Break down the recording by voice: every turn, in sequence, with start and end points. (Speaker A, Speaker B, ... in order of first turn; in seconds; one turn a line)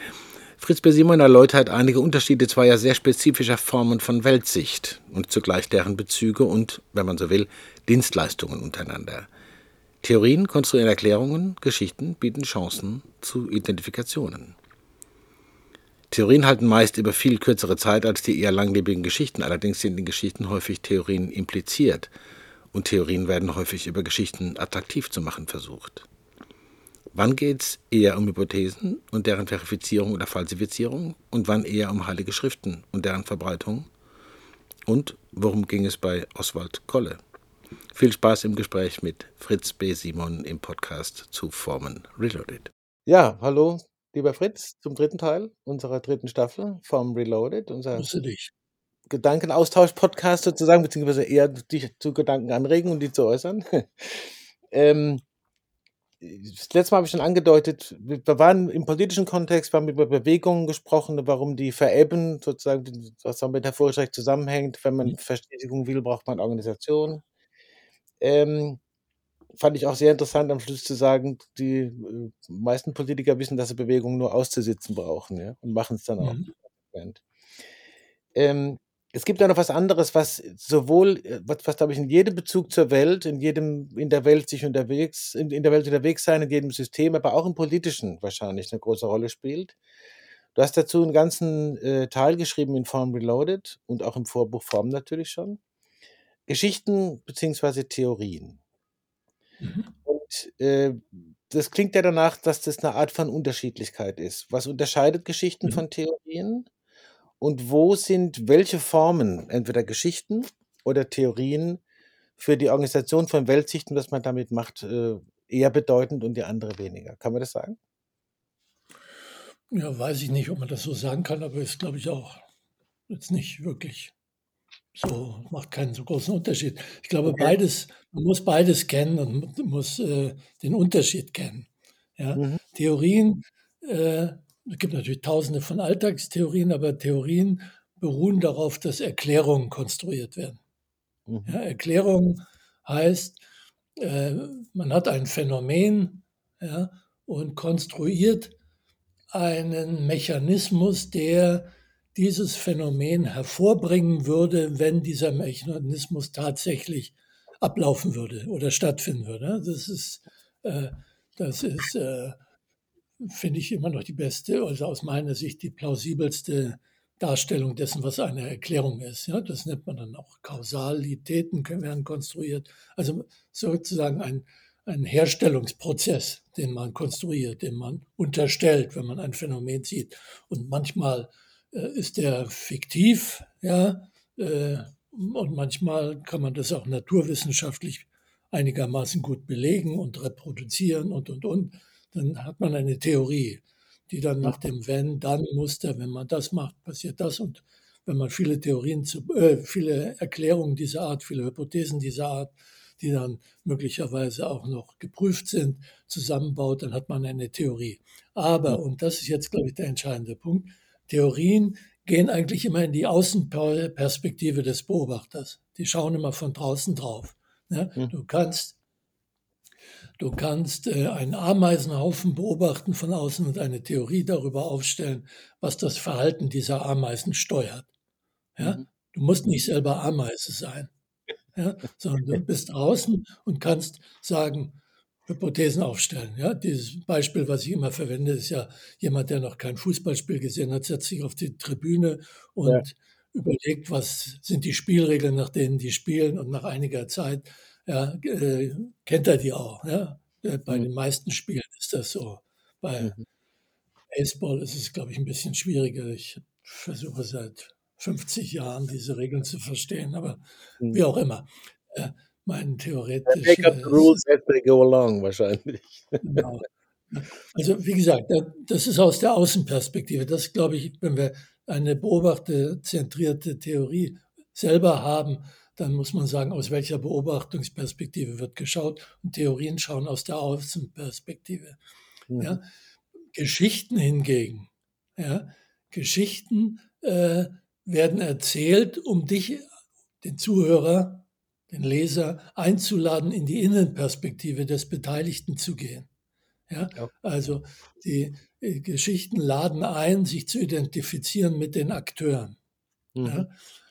Speaker A: 0.6-9.3
Speaker A: 10.0-14.6
Speaker A: 16.1-22.1
Speaker A: 22.7-26.1
Speaker A: 27.1-33.9
Speaker A: 34.9-37.2
Speaker A: 37.9-48.1
Speaker B: 47.9-48.5
Speaker A: 49.1-55.2
Speaker A: 56.2-67.2
Speaker A: 68.2-68.8
Speaker A: 69.6-76.4
Speaker B: 76.2-76.5
Speaker A: 76.9-77.2
Speaker A: 78.3-89.8
Speaker A: 90.5-95.6
Speaker A: 96.5-98.6
Speaker B: 99.6-99.9
Speaker A: 100.1-106.7
Speaker A: 107.4-111.8
Speaker A: 112.4-117.8
Speaker B: 119.7-122.4
Speaker B: 123.1-124.1
Speaker B: 125.0-140.6
Speaker A: 127.3-127.5
Speaker B: 141.4-143.4
Speaker B: 144.0-148.6
Speaker B: 149.3-162.4
Speaker B: 163.2-218.8
Speaker B: 220.2-227.9
Speaker B: 228.6-230.9
Speaker B: 231.6-253.2
Speaker B: 254.1-264.2
Speaker A: 263.3-266.2
Speaker B: 266.2-281.8
Speaker A: 282.3-282.6
Speaker B: 282.4-282.6
Speaker B: 283.3-289.6
Speaker B: 290.2-296.1
Speaker B: 296.7-302.6
Speaker A: 303.1-303.5
Speaker B: 303.2-303.5